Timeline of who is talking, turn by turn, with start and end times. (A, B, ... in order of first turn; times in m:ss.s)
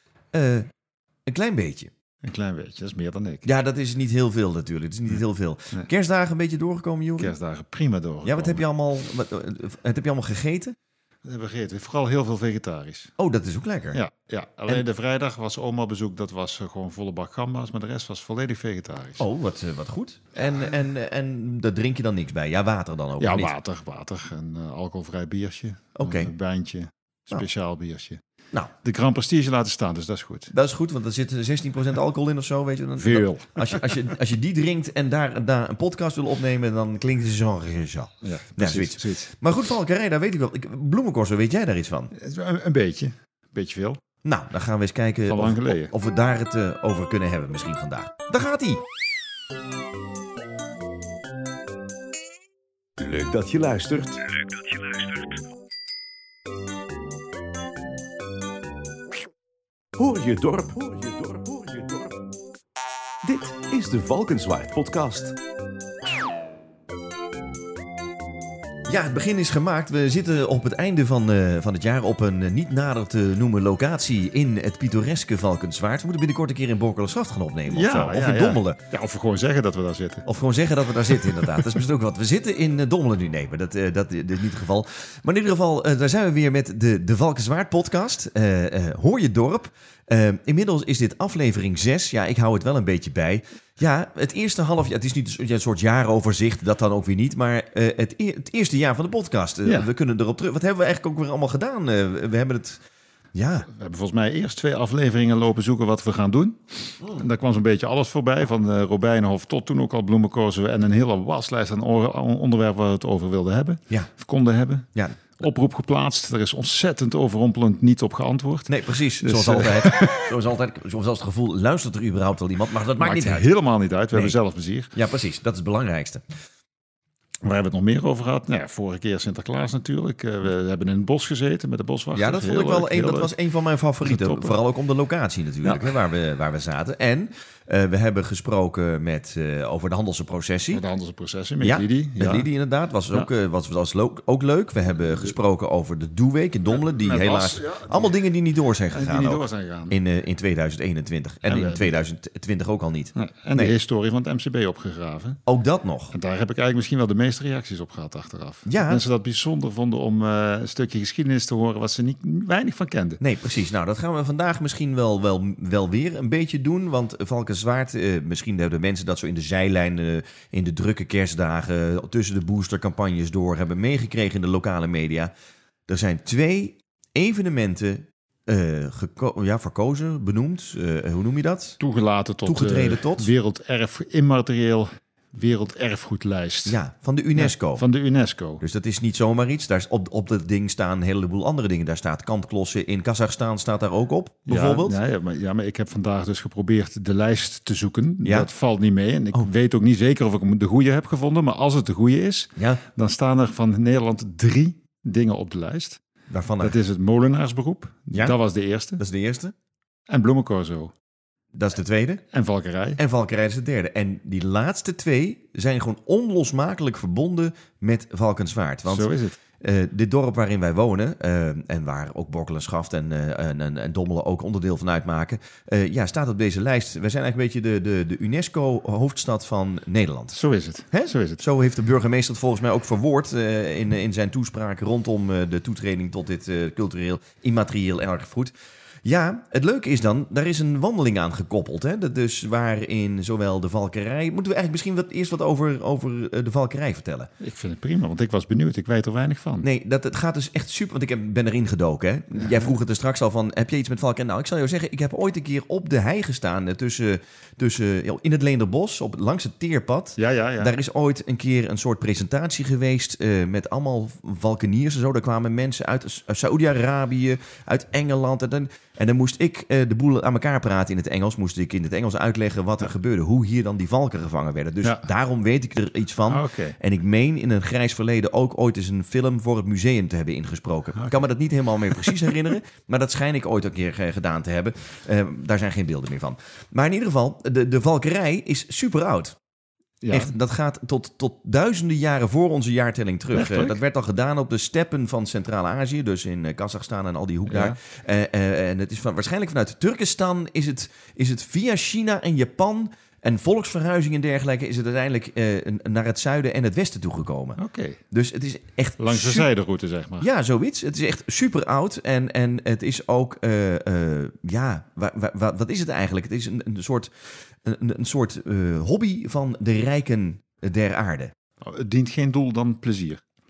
0:00.3-0:00.7 A
0:01.3-0:01.9 A
0:02.2-0:03.5 B
0:03.4-0:07.3 A
0:07.2-0:08.6 B
0:08.2-0:10.7 A
0:11.2-0:13.1 B
0:13.2-0:14.0 A
0:13.9-0:19.2 B
0:19.2-0:23.5 A
0:20.4-0:20.7 B
0:23.2-0:28.2 B
0:25.9-0:26.3 A
0:28.8-0:30.5 B
0:30.5-0:42.1 A
0:33.0-0:34.1 B
0:38.2-0:39.3 B
0:42.1-0:44.0 B
0:44.2-0:48.8 A
0:45.2-0:45.9 B
0:53.0-0:54.2 A
0:53.2-0:53.9 C
1:00.0-1:02.0 C
1:01.6-1:02.0 A
1:03.3-1:05.3 A
1:03.5-1:05.3 C
1:08.8-1:18.8 A
1:17.7-1:20.2 B
1:20.2-1:42.8 A
1:21.1-1:21.8 B
1:43.3-1:43.7 A
1:43.7-2:00.3 B
1:54.9-1:55.3 A
1:58.7-2:03.5 A
2:03.0-2:04.9 B
2:04.9-2:06.2 A
2:07.4-2:13.3 B
2:12.1-2:20.8 A
2:14.0-2:14.6 B
2:15.6-2:15.9 B
2:20.7-2:22.5 B
2:21.6-2:33.7 A
2:26.7-2:28.2 B
2:28.9-2:30.0 B
2:31.4-2:32.0 B
2:33.2-2:35.4 B
2:35.4-2:36.1 A
2:36.1-2:43.2 B
2:38.6-2:39.0 A
2:43.2-2:55.3 A
2:55.9-3:01.8 A
3:01.8-3:06.8 B
3:02.4-3:03.3 A
3:06.6-3:07.8 A
3:07.3-3:08.6 B
3:08.6-3:15.0 A
3:14.5-3:26.0 B
3:22.6-3:22.8 A
3:26.3-3:26.8 A
3:26.6-3:29.0 B
3:29.0-3:29.5 A
3:30.1-3:30.9 B
3:31.6-3:32.2 A
3:32.3-3:33.0 B
3:33.0-3:50.4 A
3:38.9-3:39.4 B
3:50.3-3:51.4 B
3:50.9-3:58.5 A
3:59.0-4:07.3 A
4:07.4-4:09.6 B
4:09.6-4:49.4 A
4:12.4-4:12.7 B
4:20.2-4:20.7 B
4:36.3-4:36.8 B
4:41.9-4:42.3 B
4:50.0-4:50.3 B
4:50.1-5:07.6 A
4:53.3-4:53.8 B
4:57.5-4:57.8 B
5:07.6-5:08.0 B
5:08.1-5:09.5 A
5:09.0-5:10.3 B
5:10.2-5:17.1 A
5:17.6-5:21.3 A
5:21.6-5:23.2 B